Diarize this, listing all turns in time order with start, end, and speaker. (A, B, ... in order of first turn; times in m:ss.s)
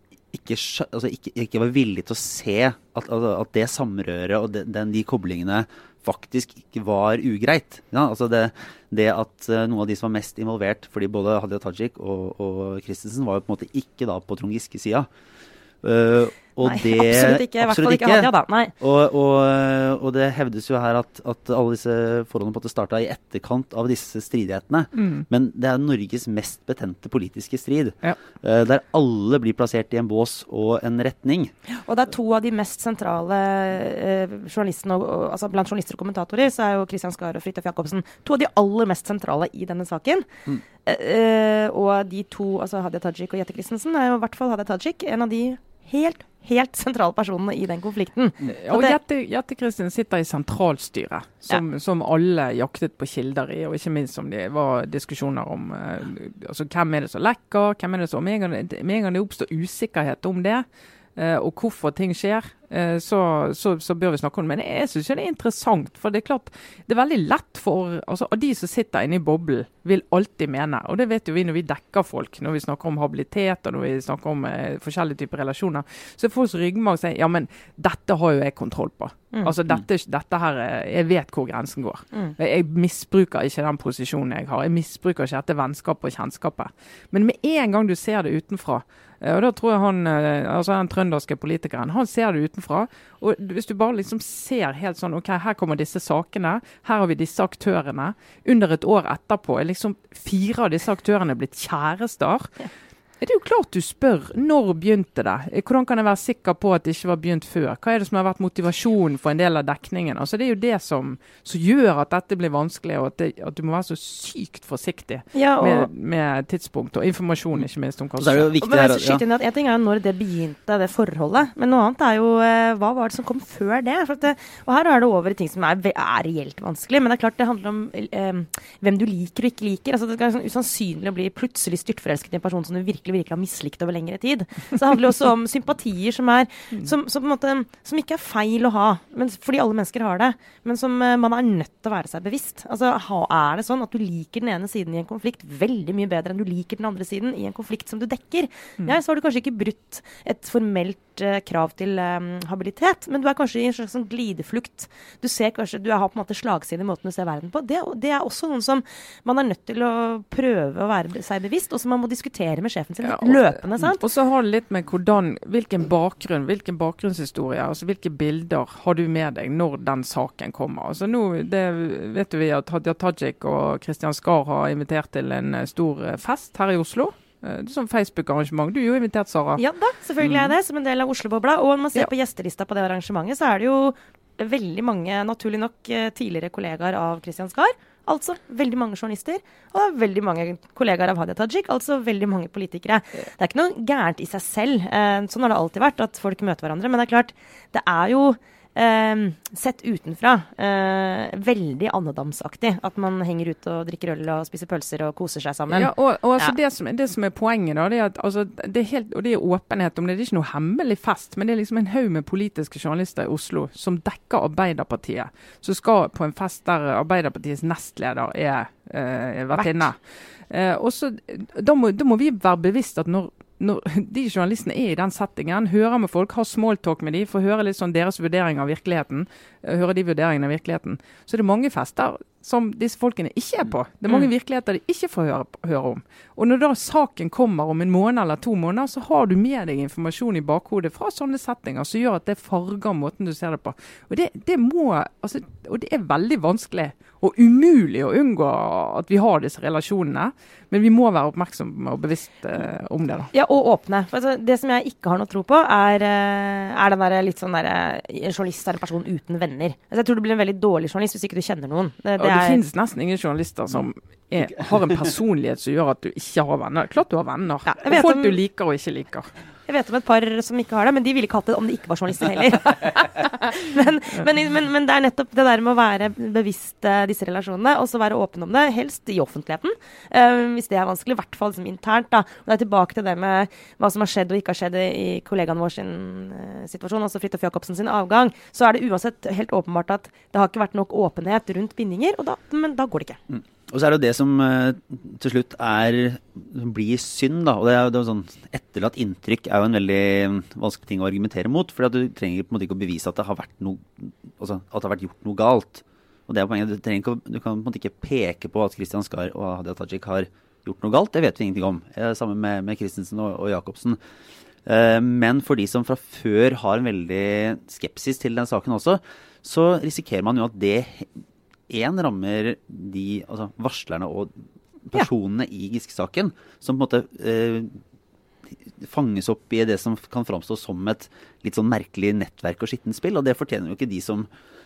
0:00.3-0:15.1 A
0:15.8-0:31.5 A
0:16.6-0:18.7 B
0:25.0-0:25.3 C
0:31.8-0:40.3 B
0:40.8-0:49.0 B
0:48.5-1:42.5 C
1:43.2-1:58.5 C
1:55.4-1:55.9 B
1:58.2-1:59.2 A
1:58.6-2:44.0 B
2:43.0-2:59.6 C
2:59.6-3:26.5 B
3:00.2-3:00.5 A
3:25.7-4:13.3 C
3:39.6-3:39.9 B
4:13.3-4:22.6 B
4:22.2-4:29.3 C
4:27.7-4:28.4 B
4:29.7-4:53.2 B
4:53.3-5:14.0 A
5:14.7-5:21.1 A
5:21.7-5:27.8 A
5:28.7-5:34.3 A